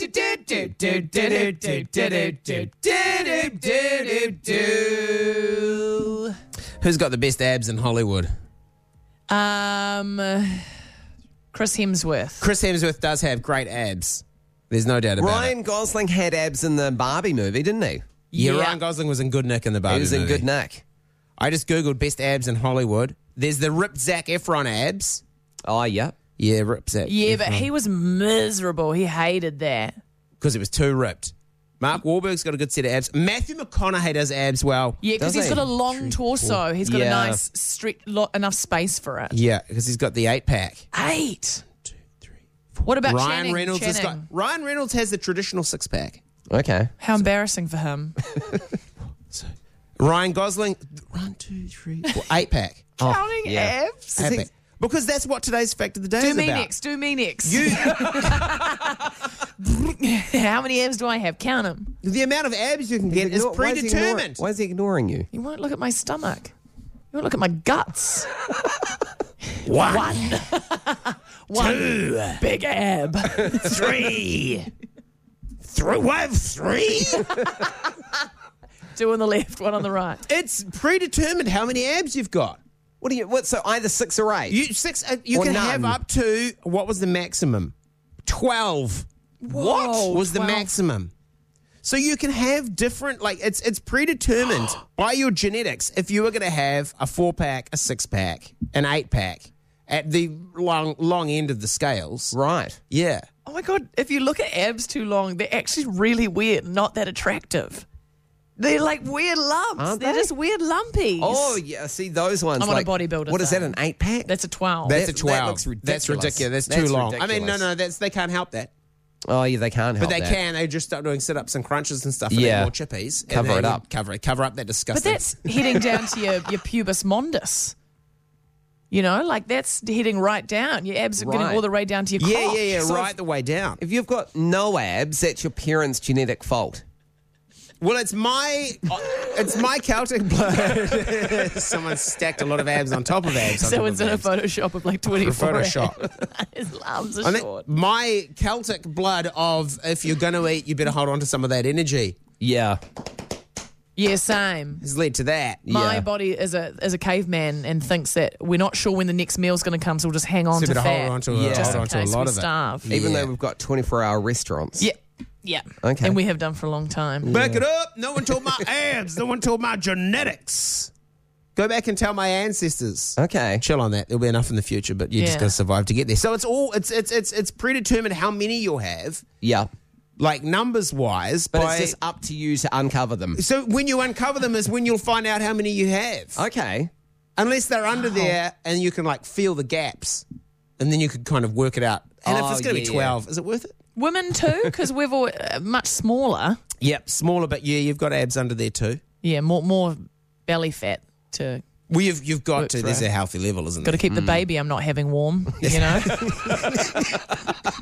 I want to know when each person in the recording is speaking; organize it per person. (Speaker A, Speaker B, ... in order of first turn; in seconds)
Speaker A: 1.2-1.5, 2.8-4.6, 15.2-18.0, 19.9-20.8, 25.7-26.2, 35.2-36.1, 36.8-37.4, 46.5-46.9, 53.0-54.5, 63.1-65.3, 83.0-84.6, 85.3-86.0, 102.3-102.8, 109.8-110.3, 111.2-114.3, 114.9-117.7, 119.3-120.4, 122.3-122.7, 123.3-123.8, 131.2-131.7, 133.8-136.8, 152.4-152.8, 155.7-156.1, 161.3-161.9, 162.9-164.9, 165.8-166.2, 167.2-167.7, 173.2-173.6, 179.4-179.7, 181.5-183.4, 186.4-186.9, 192.2-193.2, 204.1-204.4, 205.6-207.2
Speaker B: 6.8-8.3, 12.4-15.6, 18.4-20.5, 21.4-25.2, 26.4-27.7, 30.4-36.6, 39.3-40.9, 41.8-46.2, 49.3-53.0, 54.2-56.7, 57.4-58.6, 62.0-64.4, 69.6-70.5, 71.5-72.4, 73.4-74.7, 75.7-77.6, 80.3-82.6, 84.5-87.7, 88.3-91.1, 91.8-102.3, 102.9-103.2, 114.8-118.7, 120.0-126.1, 132.2-133.8, 137.8-144.3, 145.2-146.0, 147.2-152.2, 154.8-155.7, 160.5-163.3, 167.2-170.9, 171.6-179.2, 180.2-182.0, 183.4-186.4, 187.4-190.2, 190.8-193.8, 196.8-199.0, 201.9-204.0
Speaker C: 9.3-10.7, 11.5-12.5, 18.3-18.8, 27.1-30.0, 35.0-39.4, 40.9-41.6, 42.8-44.2, 47.0-48.2, 53.0-54.2, 56.2-62.0, 65.3-66.5, 67.1-68.3, 69.6-74.0, 77.4-77.9, 78.9-80.3, 89.4-90.7, 103.5-107.9, 108.6-111.6, 112.6-115.0, 124.9-127.8, 128.9-133.1, 143.3-147.7, 154.0-154.8, 155.7-162.9, 164.8-167.4, 175.2-175.6, 187.9-188.3, 194.0-196.6, 199.2-201.6, 202.6-203.1, 203.8-206.6